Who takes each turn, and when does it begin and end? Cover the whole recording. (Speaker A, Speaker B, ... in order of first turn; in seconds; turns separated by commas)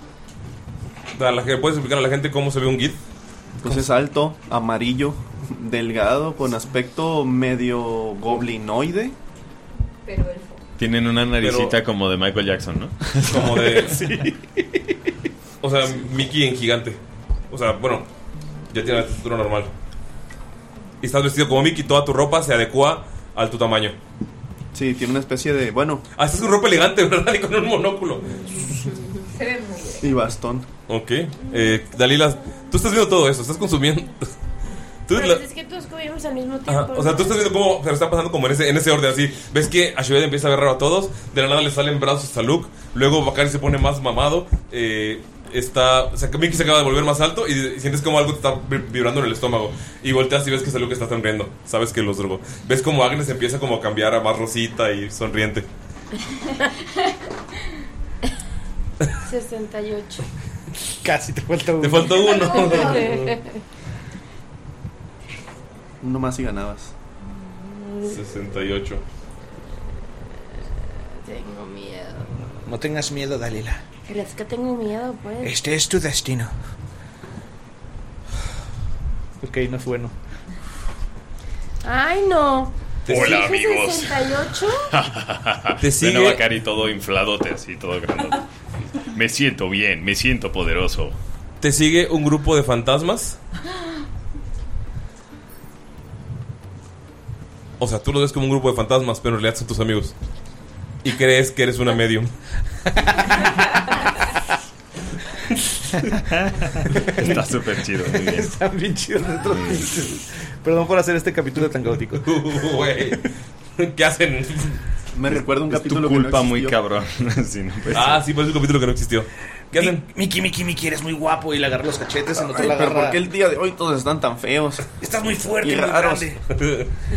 Speaker A: 1.1-3.0, Speaker B: 3.6-9.2, Speaker C: 10.0-10.6, Speaker D: 10.8-13.7, Speaker A: 11.4-11.8, Speaker A: 13.2-14.0, Speaker E: 13.7-14.8, Speaker A: 15.6-17.0, Speaker A: 17.5-18.1, Speaker A: 18.7-19.7, Speaker A: 21.0-24.0, Speaker B: 24.7-26.0, Speaker A: 26.1-28.4, Speaker C: 29.3-30.1, Speaker B: 30.0-30.7, Speaker A: 30.9-34.3, Speaker A: 35.1-35.4, Speaker F: 35.1-37.5, Speaker A: 36.7-55.7, Speaker F: 59.2-60.2, Speaker E: 61.0-62.2, Speaker A: 61.8-63.3, Speaker C: 62.2-63.1, Speaker F: 62.8-63.4, Speaker B: 66.0-66.9, Speaker F: 67.5-68.2, Speaker A: 68.1-69.0, Speaker F: 71.2-72.5, Speaker E: 72.7-73.8, Speaker F: 74.1-75.5, Speaker E: 75.4-76.5, Speaker E: 79.4-80.1, Speaker F: 81.8-84.9, Speaker A: 83.0-83.4, Speaker D: 83.1-84.3, Speaker D: 84.9-88.5, Speaker A: 85.8-86.4, Speaker D: 89.0-91.2, Speaker A: 91.6-93.4, Speaker A: 97.8-100.1, Speaker A: 101.0-102.3, Speaker D: 106.3-108.6, Speaker E: 106.9-107.4, Speaker E: 108.0-112.3, Speaker D: 109.5-109.8, Speaker A: 112.2-113.2, Speaker A: 113.8-114.8, Speaker B: 115.1-116.8, Speaker D: 115.6-118.2, Speaker A: 117.9-120.0, Speaker E: 119.7-123.2, Speaker B: 122.3-124.8, Speaker E: 125.0-126.4, Speaker B: 125.6-126.3, Speaker A: 126.5-126.9